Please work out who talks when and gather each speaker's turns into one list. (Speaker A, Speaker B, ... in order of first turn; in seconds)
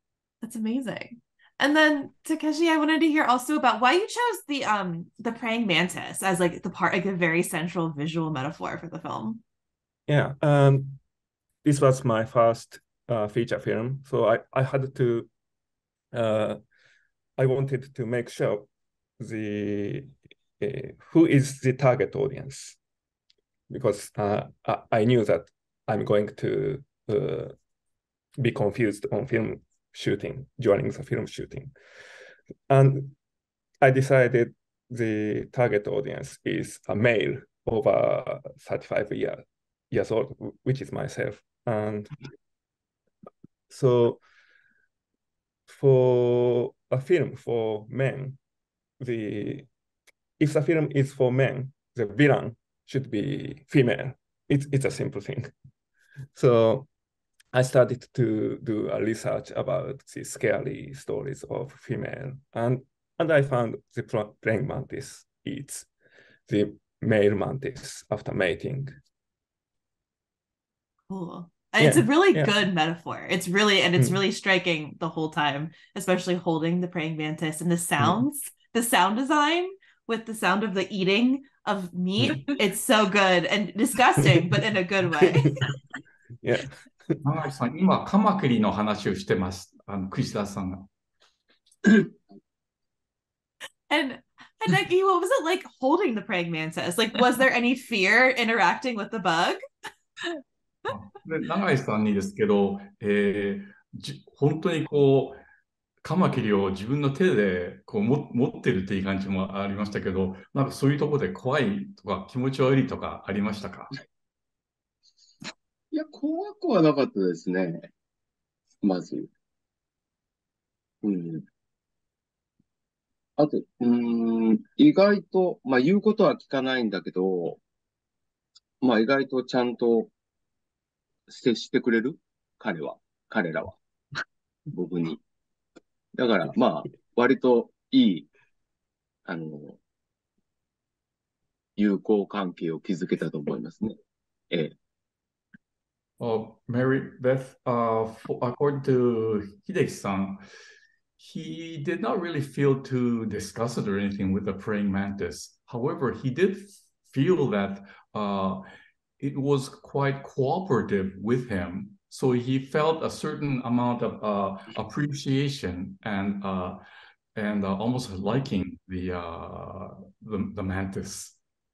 Speaker A: 0.4-9.4, 71.1-85.6, 93.9-99.6
Speaker B: 10.1-11.0, 11.6-15.3, 16.1-16.6, 17.4-18.7, 19.2-22.8, 23.7-27.6, 28.4-31.7, 32.7-33.2, 33.8-42.1, 43.7-44.2, 45.7-48.4, 49.0-49.7, 50.4-55.5, 56.3-56.9, 57.5-65.9, 66.5-68.9, 71.8-72.6, 85.2-85.6, 86.4-87.2
Speaker C: 87.2-90.9, 100.9-105.4, 106.0-113.9, 146.2-150.4, 151.2-158.7, 159.2-166.8, 167.3-171.4
Speaker D: 115.9-117.9, 118.8-119.3, 121.0-121.5, 123.4-127.6, 128.8-130.1, 131.3-133.8, 134.7-135.2, 136.2-138.3, 139.3-139.8, 141.8-143.9